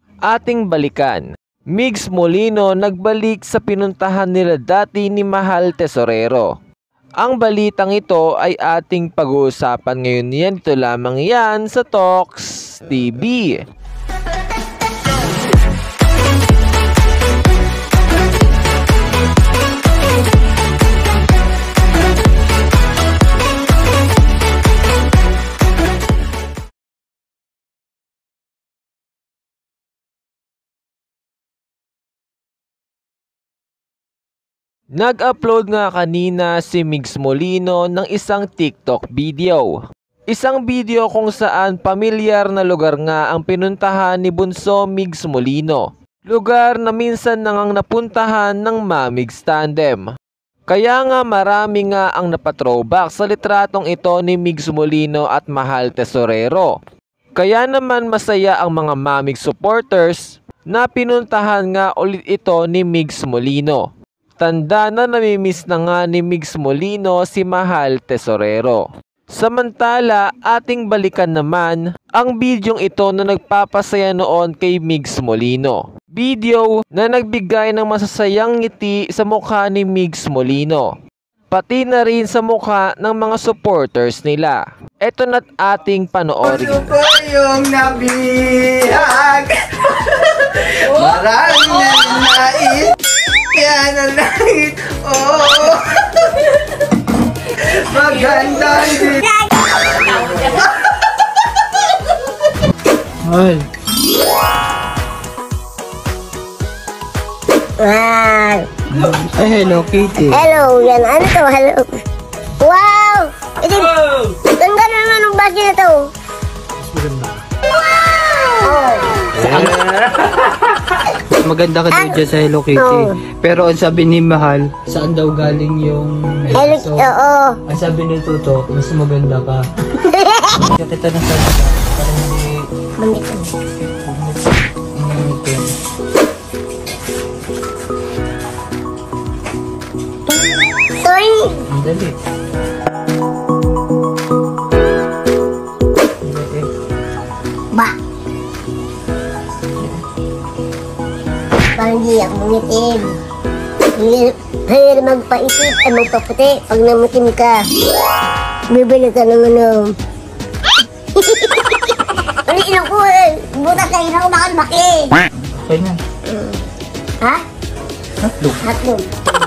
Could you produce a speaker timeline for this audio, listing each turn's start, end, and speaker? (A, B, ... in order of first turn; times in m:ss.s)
0:00.3-0:01.2 A
0:01.8-0:06.5 A
0:07.2-0:13.6 A
0:35.0-0:39.7 A
0:40.3-0:50.0 A
0:50.7-0:56.7 A
0:57.4-1:03.9 A
1:04.4-1:08.8 A
1:09.4-1:20.9 A
1:21.5-1:27.0 A
1:26.5-1:29.8 B
1:30.4-1:33.0 B
1:33.5-1:36.4 B
1:37.8-1:39.2 B
1:39.0-1:40.5 C
1:43.2-1:43.7 D
1:47.8-1:48.7 C
1:48.9-1:50.4 D
1:50.2-1:51.9 C
1:52.6-1:56.1 C
1:56.9-1:57.3 D
1:57.7-1:59.3 C
1:59.4-2:00.0 D
2:01.4-2:07.1 D
2:01.9-2:02.2 C
2:02.8-2:03.2 C
2:06.5-2:07.6 C
2:07.7-2:12.5 D
2:10.1-2:10.7 C
2:13.0-2:13.5 C
2:14.0-2:14.4 D
2:15.0-2:15.7 D
2:21.0-2:21.6 C
2:21.7-2:22.2 D
2:26.2-2:26.7 D
2:31.8-2:33.2 C
2:34.0-2:37.7 C
2:38.7-2:40.0 C
2:41.1-2:41.9 C
2:42.5-2:45.2 C
2:45.4-2:46.0 D
2:46.3-2:46.6 C
2:48.2-2:48.6 D
2:48.6-2:49.2 C